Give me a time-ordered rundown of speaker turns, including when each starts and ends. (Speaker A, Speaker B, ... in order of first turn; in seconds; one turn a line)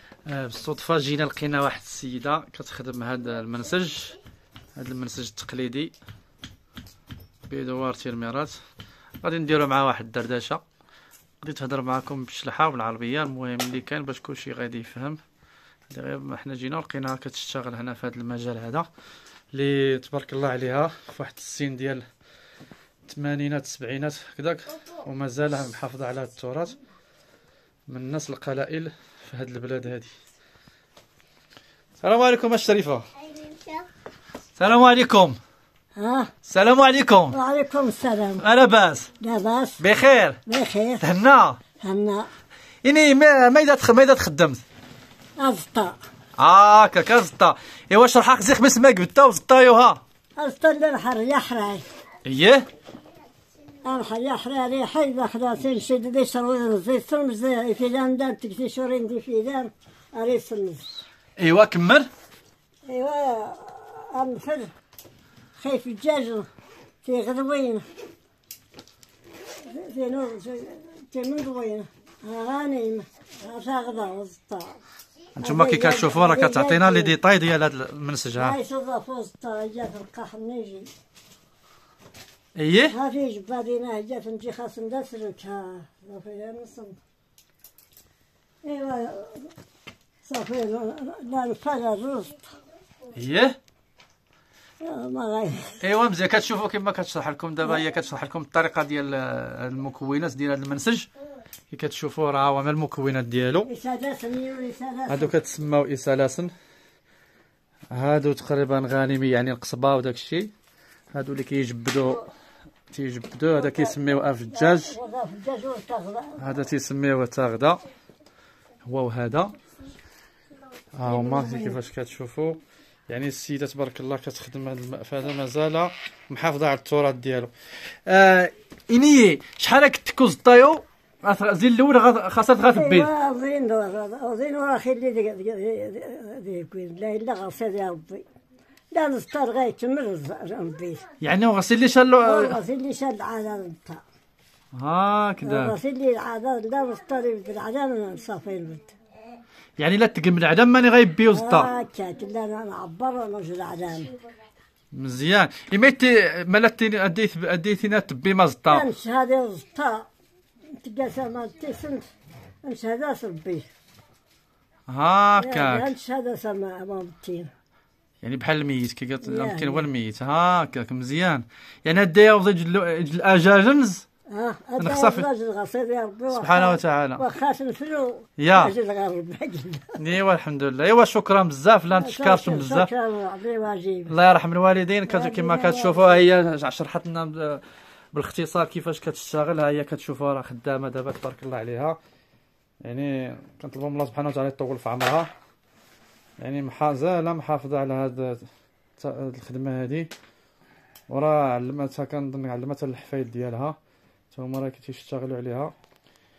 Speaker A: 0.2-4.2
Speaker A: 4.8-5.9
Speaker A: 7.5-8.6
Speaker A: 9.2-10.6
Speaker A: 11.4-15.2
Speaker A: 15.9-18.9
Speaker A: 19.5-22.0
Speaker A: 23.1-26.7
Speaker A: 27.9-30.1
Speaker A: 32.0-33.1
Speaker A: 34.6-35.4
Speaker B: 36.0-36.3
Speaker A: 36.5-37.4
Speaker B: 37.3-38.4
Speaker A: 38.4-39.1
Speaker B: 39.2-39.8
Speaker A: 39.8-40.4
Speaker B: 40.5-41.0
Speaker A: 41.0-41.6
Speaker B: 41.8-42.3
Speaker A: 42.8-44.6
Speaker B: 45.4-46.0
Speaker A: 46.4-50.0
Speaker B: 50.4-51.8
Speaker A: 52.2-52.6
Speaker B: 53.8-61.0
Speaker A: 61.4-62.1
Speaker B: 62.9-64.7
Speaker B: 65.6-66.5
Speaker B: 67.0-67.8
Speaker B: 69.6-74.8
Speaker A: 75.3-78.5
Speaker B: 75.4-77.2
Speaker B: 78.3-80.9
Speaker A: 82.5-82.9
Speaker B: 82.9-87.0
Speaker B: 88.6-89.5
Speaker B: 90.2-92.5
Speaker A: 93.1-93.5
Speaker B: 94.8-95.8
Speaker A: 95.8-101.1
Speaker A: 101.7-103.7
Speaker B: 103.7-105.3
Speaker A: 105.1-106.5
Speaker A: 107.9-110.5
Speaker A: 111.1-112.3
Speaker A: 112.9-114.9
Speaker B: 113.5-116.4
Speaker A: 116.4-117.8
Speaker A: 118.8-119.5
Speaker A: 120.9-133.1
Speaker B: 121.0-121.8
Speaker B: 132.7-138.2
Speaker B: 138.9-141.0
Speaker A: 141.2-142.6
Speaker B: 142.2-144.0
Speaker A: 144.7-145.8
Speaker B: 145.4-148.9
Speaker A: 149.8-151.7
Speaker B: 151.3-154.1
Speaker A: 154.9-158.8
Speaker B: 158.7-160.1
Speaker B: 160.8-162.1
Speaker B: 162.6-163.7
Speaker A: 164.9-165.9
Speaker B: 165.4-167.5
Speaker A: 168.2-174.0
Speaker B: 169.2-169.9
Speaker B: 174.3-180.0
Speaker A: 174.8-175.3
Speaker A: 176.3-177.2
Speaker A: 178.4-178.7
Speaker A: 180.0-182.9
Speaker B: 181.9-184.1
Speaker A: 184.1-192.0
Speaker B: 185.1-186.2
Speaker A: 192.8-195.3
Speaker A: 196.4-198.5
Speaker A: 199.0-200.1
Speaker A: 201.1-203.8
Speaker A: 204.3-205.7